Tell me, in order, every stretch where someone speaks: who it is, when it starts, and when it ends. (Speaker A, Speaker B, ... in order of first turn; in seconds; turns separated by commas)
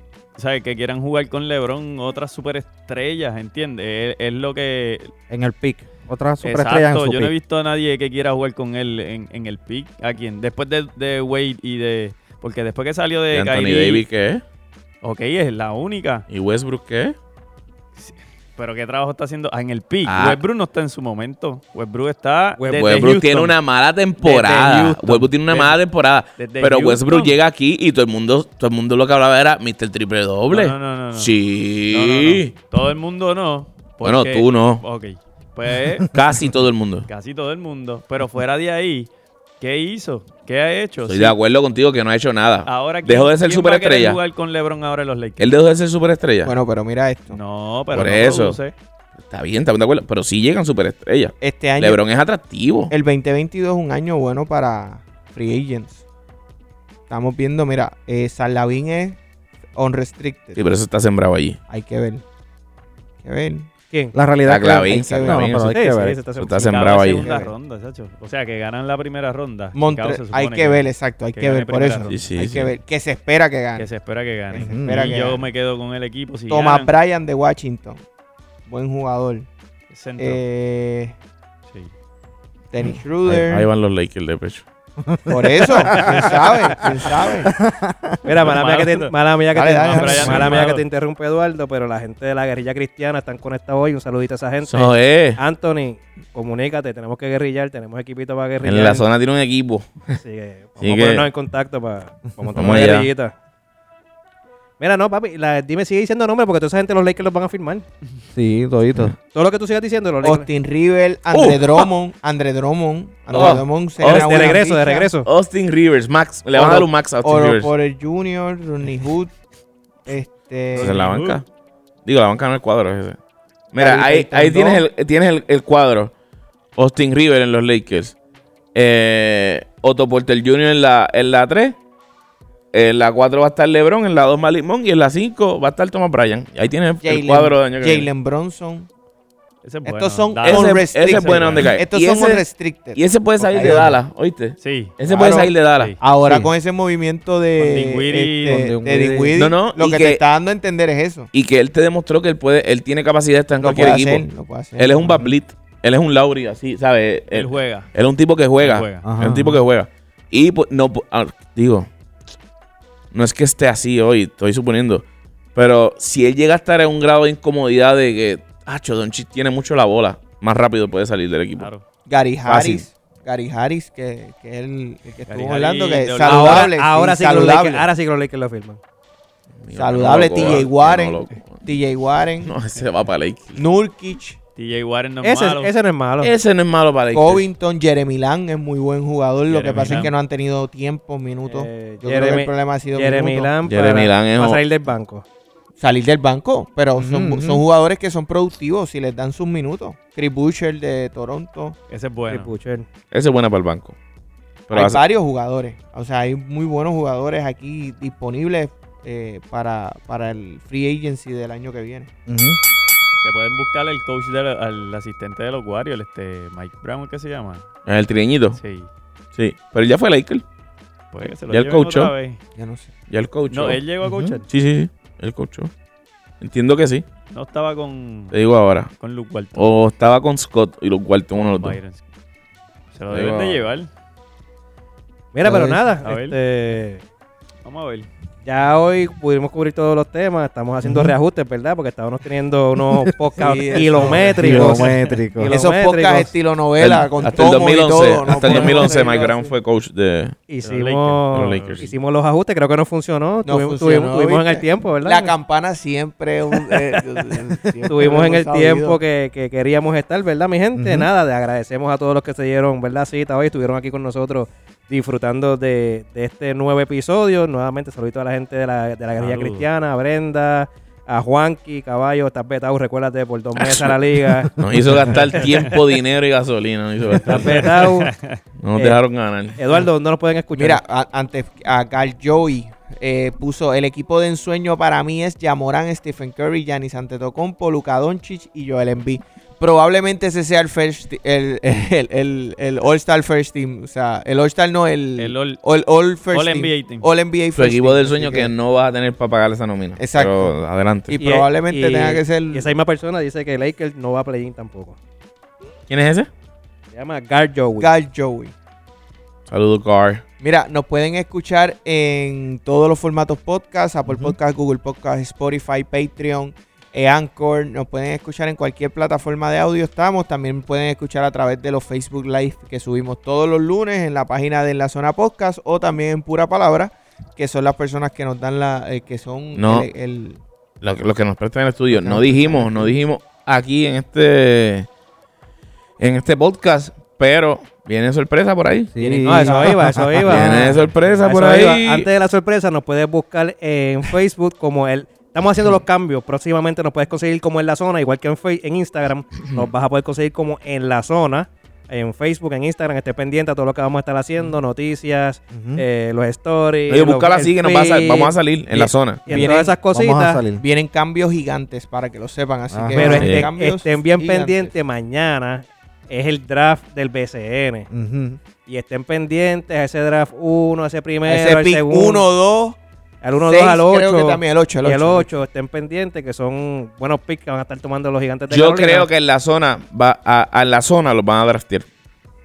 Speaker A: 0.4-5.1, Speaker B: 5.3-7.3, Speaker A: 6.4-14.0, Speaker C: 13.3-14.4, Speaker A: 15.0-16.2, Speaker C: 16.3-17.1, Speaker A: 18.0-23.6, Speaker C: 20.0-20.4, Speaker D: 22.6-23.0, Speaker C: 22.7-32.5, Speaker A: 24.2-25.8, Speaker A: 26.4-27.4, Speaker A: 30.5-31.3, Speaker A: 31.9-36.1, Speaker C: 34.0-34.8, Speaker C: 36.1-37.1, Speaker A: 37.1-41.4, Speaker C: 41.0-44.2, Speaker A: 42.6-45.6, Speaker C: 45.4-46.5, Speaker E: 46.4-47.4, Speaker A: 47.3-48.7, Speaker C: 47.9-48.6, Speaker C: 49.2-52.9, Speaker E: 51.4-52.0, Speaker E: 52.9-56.0, Speaker E: 57.1-59.2, Speaker E: 59.7-60.6, Speaker C: 60.5-61.6, Speaker E: 61.7-62.2, Speaker E: 63.2-63.7, Speaker D: 63.9-64.2, Speaker B: 64.1-66.2, Speaker C: 64.4-65.8, Speaker E: 64.8-65.5, Speaker D: 65.5-67.0, Speaker C: 66.3-67.2, Speaker A: 66.5-72.3, Speaker E: 67.2-67.5, Speaker E: 69.7-73.9, Speaker C: 72.1-72.7, Speaker A: 73.8-76.9, Speaker E: 74.5-75.5, Speaker B: 74.5-75.1, Speaker E: 76.5-78.0, Speaker E: 78.7-79.5, Speaker A: 79.9-80.4, Speaker E: 80.2-81.2, Speaker E: 82.7-83.7, Speaker C: 83.3-84.6, Speaker B: 85.1-86.9, Speaker E: 85.3-87.5, Speaker B: 87.5-88.2, Speaker D: 88.2-99.0, Speaker A: 88.4-89.1, Speaker E: 89.5-90.7, Speaker A: 89.8-90.8, Speaker C: 94.6-95.4, Speaker C: 98.6-100.2, Speaker D: 100.1-103.3, Speaker C: 100.8-101.3, Speaker C: 102.5-103.1, Speaker D: 104.8-107.8, Speaker B: 108.3-109.1, Speaker D: 109.2-110.5, Speaker E: 110.2-115.1, Speaker C: 111.3-111.9, Speaker C: 113.3-114.6, Speaker D: 113.4-115.3, Speaker C: 115.2-117.7, Speaker E: 116.5-119.3, Speaker E: 120.0-121.3, Speaker C: 120.7-121.5, Speaker A: 120.8-121.0, Speaker C: 122.0-123.2, Speaker C: 123.7-126.1, Speaker E: 123.8-124.8, Speaker C: 126.8-128.2, Speaker C: 128.7-131.8, Speaker C: 132.7-138.1, Speaker E: 137.0-138.9, Speaker A: 139.6-141.7, Speaker E: 139.8-144.0, Speaker C: 140.4-145.9, Speaker A: 144.6-146.0, Speaker E: 145.1-151.3, Speaker A: 147.7-148.6, Speaker B: 148.4-149.3, Speaker C: 149.3-150.2, Speaker C: 151.3-154.2, Speaker E: 153.6-155.2, Speaker C: 154.8-161.9, Speaker A: 157.3-157.9, Speaker A: 158.6-159.1, Speaker B: 159.0-159.6, Speaker C: 163.1-171.7, Speaker A: 171.6-171.8, Speaker E: 172.1-177.9, Speaker C: 172.4-172.9, Speaker A: 175.3-176.7, Speaker D: 176.2-178.8, Speaker C: 179.6-181.6, Speaker E: 179.7-182.5, Speaker C: 182.4-183.6, Speaker E: 183.5-184.4, Speaker A: 184.6-185.7, Speaker D: 185.2-186.3, Speaker C: 186.2-187.5, Speaker E: 187.1-193.5, Speaker A: 189.5-190.1, Speaker D: 191.5-195.2, Speaker C: 193.7-194.6, Speaker E: 195.8-201.8, Speaker B: 196.9-197.6, Speaker A: 201.9-202.5, Speaker D: 202.3-202.9, Speaker C: 203.1-203.9, Speaker C: 204.7-205.0, Speaker E: 204.7-212.1, Speaker B: 212.3-212.6, Speaker A: 213.2-217.6, Speaker C: 217.8-218.6, Speaker A: 218.5-218.9, Speaker C: 219.3-220.4, Speaker A: 221.1-222.4, Speaker C: 221.2-222.1, Speaker E: 222.6-222.9, Speaker C: 223.1-223.8, Speaker A: 223.5-224.4, Speaker B: 224.0-224.4, Speaker C: 224.5-225.7, Speaker C: 226.4-227.0, Speaker A: 227.3-228.4, Speaker C: 228.3-228.9, Speaker A: 229.0-229.7, Speaker C: 229.5-231.8, Speaker A: 231.3-232.0, Speaker A: 232.9-233.9, Speaker C: 233.1-233.7, Speaker D: 235.3-237.0, Speaker B: 235.4-235.8, Speaker A: 236.0-236.4, Speaker A: 237.6-238.1, Speaker D: 238.4-246.3, Speaker B: 240.8-241.2, Speaker B: 242.8-243.3, Speaker E: 243.4-244.3, Speaker B: 244.4-245.5, Speaker C: 244.4-244.8, Speaker A: 244.8-245.2, Speaker E: 245.4-249.5, Speaker C: 246.8-250.4, Speaker D: 248.3-248.9, Speaker D: 250.5-255.3, Speaker A: 250.6-251.9, Speaker C: 251.3-251.8, Speaker E: 253.4-259.0, Speaker D: 256.6-257.2, Speaker D: 257.9-274.6, Speaker B: 260.8-261.1, Speaker A: 269.2-269.7, Speaker C: 273.5-274.0, Speaker C: 274.6-277.8, Speaker D: 275.2-275.7, Speaker D: 277.2-278.1, Speaker A: 277.3-278.4, Speaker C: 278.6-279.6, Speaker D: 278.7-279.0, Speaker D: 279.6-280.8, Speaker E: 280.5-298.5, Speaker A: 295.2-295.6, Speaker A: 296.3-297.1, Speaker C: 297.6-301.1, Speaker E: 300.0-300.6, Speaker E: 301.1-302.7, Speaker D: 301.1-305.0, Speaker C: 305.9-306.3, Speaker D: 306.9-307.9, Speaker E: 307.8-308.5, Speaker C: 309.5-310.2, Speaker E: 310.4-330.4, Speaker B: 314.1-314.3, Speaker C: 329.5-329.9, Speaker C: 330.8-334.9, Speaker E: 331.9-333.0, Speaker C: 336.0-338.9, Speaker B: 338.9-340.8, Speaker E: 339.0-340.0, Speaker D: 339.2-360.4, Speaker C: 340.2-342.1, Speaker B: 355.5-355.8, Speaker C: 356.9-359.3, Speaker E: 359.3-359.8, Speaker B: 359.3-360.6, Speaker E: 360.6-364.7, Speaker B: 362.7-363.4, Speaker D: 362.9-367.9, Speaker C: 363.2-363.5, Speaker B: 367.9-368.4, Speaker D: 368.6-372.2, Speaker E: 371.2-372.8, Speaker D: 373.2-379.1, Speaker E: 373.4-375.3, Speaker C: 378.5-381.9